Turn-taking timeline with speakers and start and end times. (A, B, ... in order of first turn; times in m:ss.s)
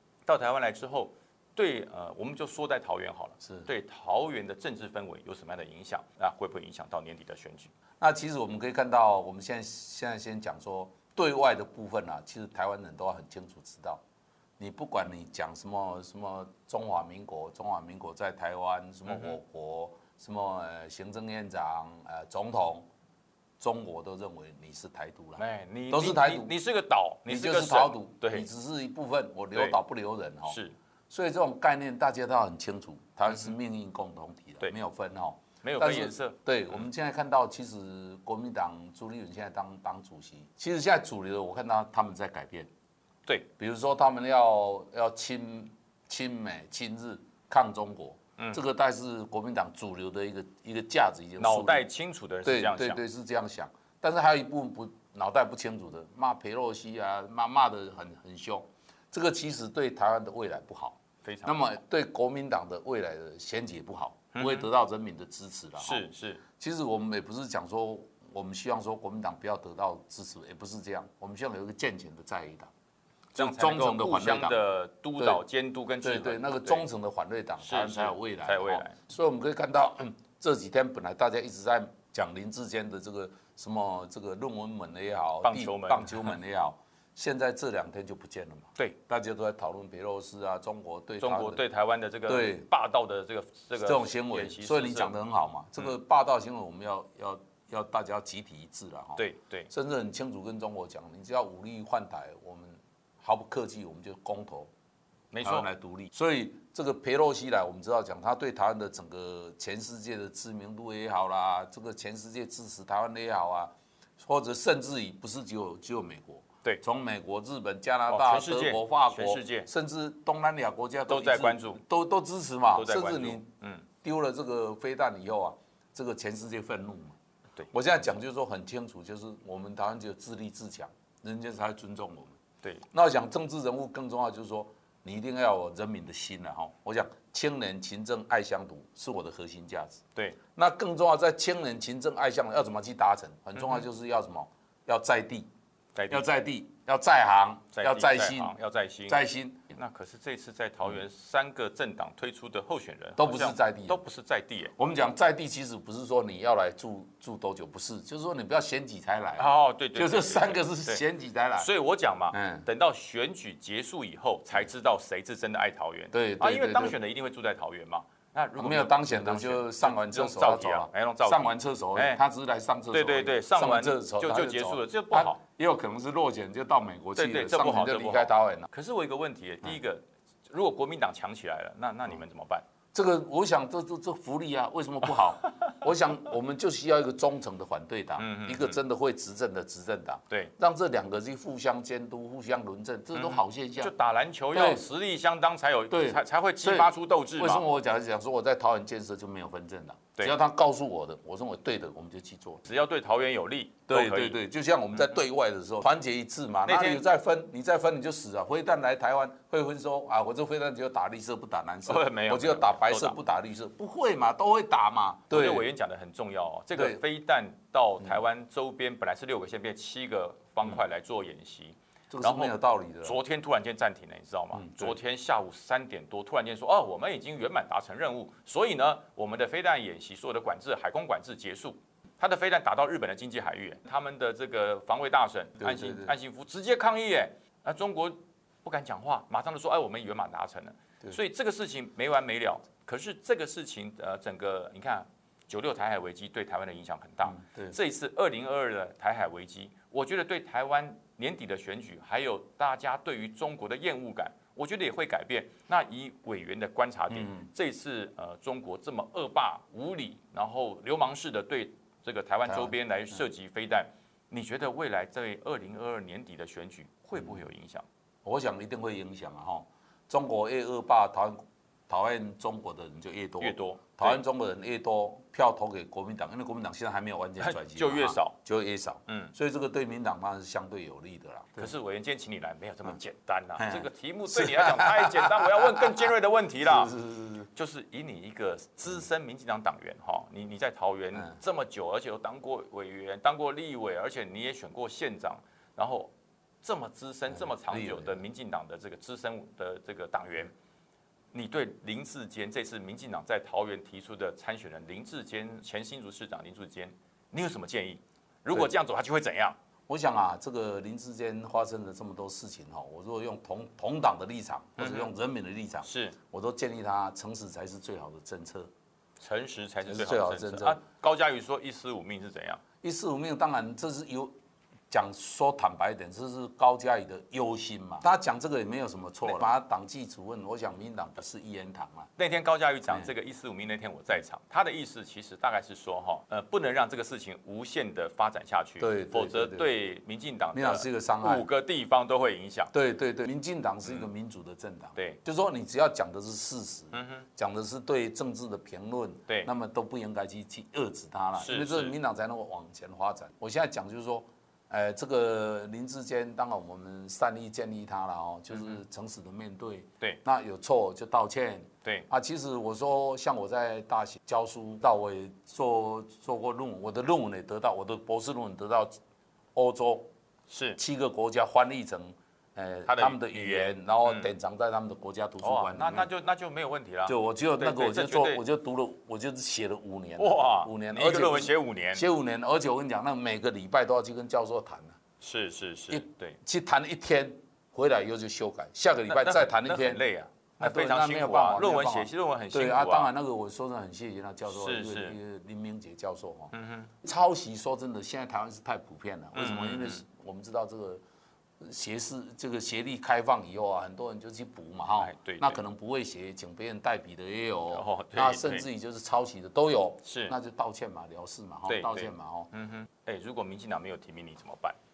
0:00.3-0:07.7 A
0:03.4-0:03.7 B
0:08.0-0:14.0 B
0:14.6-0:22.9 B
0:19.1-0:19.4 A
0:23.6-0:26.6 B
0:25.4-0:28.5 A
0:27.3-0:30.6 B
0:30.5-0:30.8 A
0:31.1-0:42.7 B
0:33.3-0:33.6 A
0:35.6-0:36.9 A
0:43.6-0:51.8 B
0:51.4-0:53.0 A
0:52.4-1:06.1 B
1:01.2-1:01.6 A
1:04.3-1:04.7 A
1:05.8-1:06.4 A
1:06.6-1:12.7 B
1:13.4-1:14.6 B
1:13.4-1:16.9 A
1:15.2-1:15.4 B
1:16.0-1:31.6 B
1:17.6-1:19.0 A
1:25.4-1:26.4 A
1:31.2-1:35.2 A
1:32.3-1:32.7 B
1:33.8-1:44.7 B
1:39.2-1:39.7 A
1:45.3-1:45.7 A
1:45.4-2:03.5 B
1:58.1-1:59.7 A
2:01.1-2:01.8 A
2:02.7-2:03.9 A
2:04.0-2:07.2 B
2:07.7-2:12.4 B
2:12.9-2:20.0 B
2:20.6-2:25.5 B
2:23.6-2:23.8 A
2:26.0-2:26.3 A
2:26.1-2:28.6 B
2:27.7-2:34.8 A
2:29.1-2:29.6 B
2:33.2-2:34.0 B
2:34.8-2:41.7 B
2:39.4-2:41.0 A
2:41.6-2:52.2 A
2:42.3-2:42.7 B
2:46.1-2:47.0 B
2:48.6-2:58.7 B
2:52.9-2:55.4 A
2:57.2-3:02.6 A
3:02.9-3:13.9 B
3:08.2-3:08.8 A
3:13.1-3:17.6 A
3:14.5-3:14.9 B
3:15.9-3:22.6 B
3:22.6-3:24.4 A
3:23.9-3:35.7 B
3:26.7-3:27.0 A
3:31.9-3:33.2 A
3:35.3-4:27.8 A
3:36.7-3:37.0 B
3:42.1-3:43.2 B
3:44.5-3:45.0 B
3:55.6-3:56.2 B
4:07.2-4:07.8 B
4:17.1-4:17.5 B
4:22.5-4:23.2 B
4:28.2-4:41.7 B
4:33.4-4:34.2 A
4:37.4-4:38.4 A
4:39.1-4:39.3 A
4:41.6-4:46.9 A
4:43.6-4:46.1 B
4:46.6-4:47.5 B
4:47.5-4:56.1 A
4:56.6-5:00.5 A
4:57.3-4:58.2 B
5:01.3-5:09.6 A
5:09.9-5:18.7 B
5:14.8-5:15.1 A
5:15.8-5:16.2 A
5:19.2-5:22.6 A
5:19.8-5:20.8 B
5:22.8-5:24.3 B
5:24.9-5:32.1 B
5:32.2-5:42.7 A
5:38.8-5:39.7 B
5:40.5-5:41.5 B
5:42.7-6:08.9 B
5:46.9-5:47.3 A
5:51.4-5:51.9 A
5:58.5-5:58.8 A
6:09.6-6:10.1 B
6:10.5-6:10.8 A
6:10.8-6:16.1 B
6:12.9-6:14.3 A
6:15.4-6:18.4 A
6:17.1-6:25.0 B
6:20.2-6:22.0 A
6:25.2-6:26.4 A
6:25.9-6:30.0 B
6:29.1-6:33.1 A
6:30.6-6:41.0 B
6:34.5-6:35.2 A
6:36.5-6:36.9 A
6:39.4-6:40.0 A
6:41.6-6:52.5 B
6:45.0-6:45.6 A
6:47.7-6:48.7 A
6:50.0-6:50.4 A
6:51.7-6:54.8 A